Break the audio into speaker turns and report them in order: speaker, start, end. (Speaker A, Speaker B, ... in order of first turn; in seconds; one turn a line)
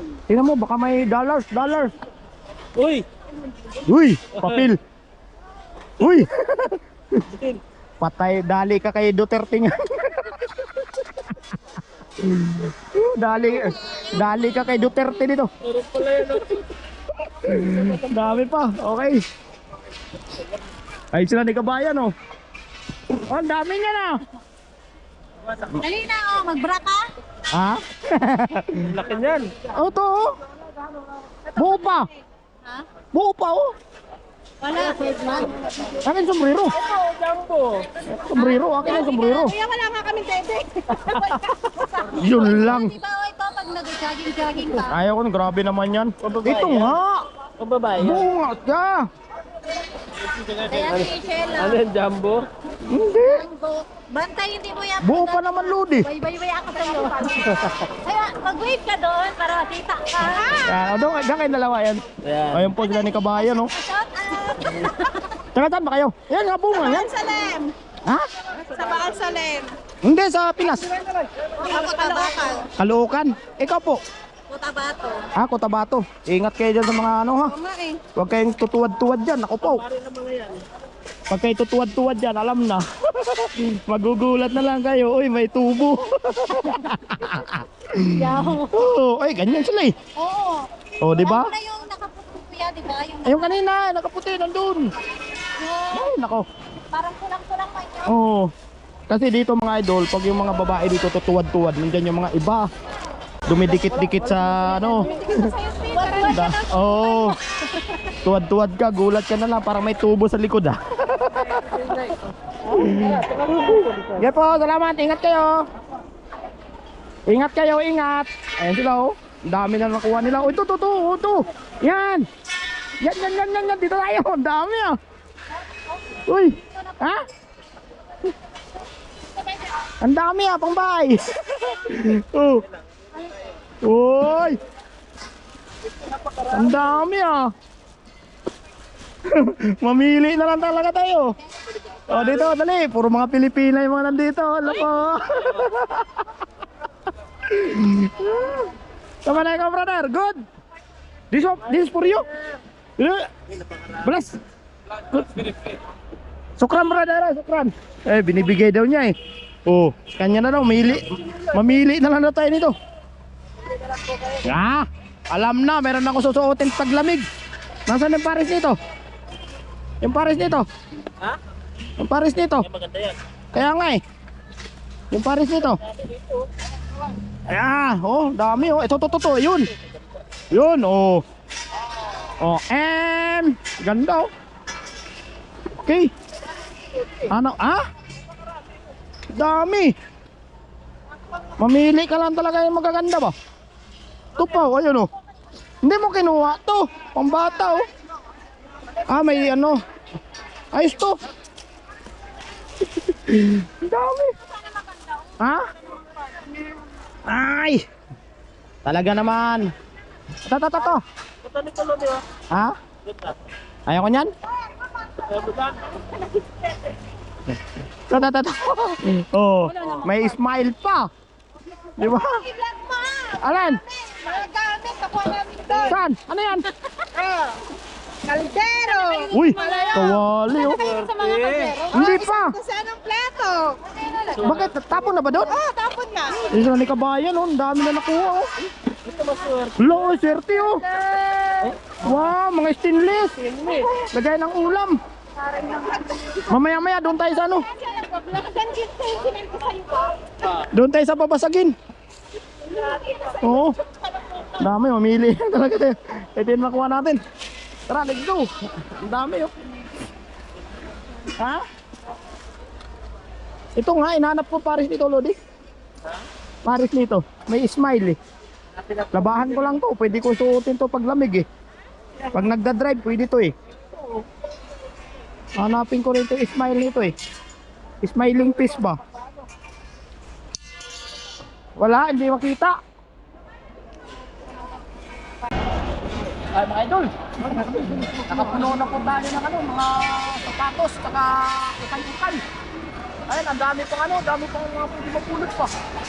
Speaker A: 0.3-1.9
Speaker B: 2.8-3.1
Speaker A: 3.8-4.8
Speaker A: 6.0-7.2
Speaker B: 7.3-7.6
Speaker A: 8.0-11.3
Speaker A: 12.2-15.5
Speaker B: 15.7-16.6
Speaker A: 17.4-19.2
Speaker A: 21.1-22.1
Speaker A: 23.1-24.2
Speaker C: 25.8-27.1
Speaker A: 27.5-29.0
Speaker B: 28.9-29.6
Speaker A: 29.6-30.3
Speaker A: 31.5-32.1
Speaker A: 33.1-33.7
Speaker C: 34.6-35.5
Speaker A: 36.0-36.8
Speaker B: 36.8-37.9
Speaker A: 38.0-39.5
Speaker C: 38.9-41.3
Speaker B: 40.9-41.9
Speaker A: 42.1-43.0
Speaker C: 42.2-44.9
Speaker A: 44.9-47.3
Speaker B: 46.2-46.9
Speaker B: 47.6-48.3
Speaker A: 48.0-49.0
Speaker B: 50.3-52.5
Speaker C: 50.7-51.8
Speaker A: 52.8-53.5
Speaker C: 53.2-60.6
Speaker A: 55.0-56.1
Speaker B: 57.2-57.9
Speaker A: 60.6-63.7
Speaker B: 62.2-62.7
Speaker C: 63.5-65.2
Speaker A: 65.5-67.1
Speaker C: 67.2-67.6
Speaker B: 67.5-67.7
Speaker B: 68.5-69.7
Speaker A: 70.0-70.9
Speaker C: 71.6-72.7
Speaker B: 71.8-72.5
Speaker A: 72.8-74.0
Speaker C: 74.5-75.3
Speaker A: 75.3-77.6
Speaker C: 77.6-78.0
Speaker A: 78.1-79.8
Speaker B: 79.9-80.6
Speaker A: 81.3-89.9
Speaker C: 88.0-88.7
Speaker C: 90.2-93.6
Speaker A: 91.0-91.5
Speaker A: 93.2-94.9
Speaker C: 95.6-96.1
Speaker A: 95.9-96.5
Speaker C: 96.9-98.1
Speaker A: 98.0-98.5
Speaker A: 99.1-102.7
Speaker A: 103.5-105.4
Speaker C: 105.0-107.4
Speaker A: 106.2-107.4
Speaker A: 108.2-112.0
Speaker A: 112.6-115.6
Speaker B: 113.3-114.0
Speaker A: 117.3-122.3
Speaker A: 123.0-125.0
Speaker A: 126.2-127.2
Speaker A: 130.0-132.6
Speaker A: 133.8-134.6
Speaker A: 136.5-137.5
Speaker A: 139.2-141.3
Speaker A: 142.1-146.1
Speaker A: 147.4-148.7
Speaker A: 149.2-150.4
Speaker A: 151.3-152.2
Speaker A: 153.0-153.2
Speaker A: 154.0-154.4
Speaker A: 155.1-155.7
Speaker A: 156.6-159.1
Speaker A: 159.7-162.7
Speaker A: 164.3-167.3
Speaker A: 167.9-168.8
Speaker A: 170.0-170.7
Speaker A: 172.0-172.7
Speaker A: 173.5-174.0
Speaker A: 175.1-175.8
Speaker A: 177.5-179.7
Speaker A: 180.5-181.2
Speaker A: 182.4-184.3
Speaker A: 185.8-186.1
Speaker A: 187.2-187.8
Speaker A: 189.3-189.9
Speaker A: 191.6-193.3
Speaker A: 194.4-195.1
Speaker A: 195.8-197.8
Speaker A: 199.1-199.8
Speaker A: 200.7-201.1
Speaker A: 203.0-204.3
Speaker A: 207.2-207.8
Speaker A: 208.8-209.7
Speaker A: 210.4-211.0
Speaker B: 211.4-212.2
Speaker A: 212.5-212.8
Speaker A: 213.8-214.3
Speaker B: 215.2-216.0
Speaker A: 218.1-221.1
Speaker A: 222.0-222.4
Speaker C: 222.5-225.9
Speaker A: 223.3-223.8
Speaker A: 225.8-226.7
Speaker C: 228.3-230.1
Speaker B: 229.2-229.8
Speaker A: 229.3-230.9
Speaker B: 230.7-231.9
Speaker C: 230.8-231.8
Speaker A: 231.9-232.6
Speaker C: 232.6-234.3
Speaker B: 233.5-233.8
Speaker B: 234.3-234.6
Speaker A: 234.4-235.6
Speaker C: 235.6-236.3
Speaker A: 236.4-238.5
Speaker B: 239.0-239.8
Speaker A: 239.8-245.0
Speaker B: 243.5-243.9
Speaker A: 246.4-247.7
Speaker C: 247.7-250.1
Speaker A: 250.5-251.7
Speaker A: 253.3-253.8
Speaker A: 254.5-257.2
Speaker A: 257.9-259.5
Speaker A: 261.4-261.6
Speaker A: 263.8-265.3
Speaker A: 266.6-268.2
Speaker A: 269.1-271.4
Speaker A: 272.3-273.5
Speaker A: 275.6-277.1
Speaker A: 278.0-279.0
Speaker A: 281.8-282.7
Speaker A: 286.5-292.4
Speaker A: 293.3-295.7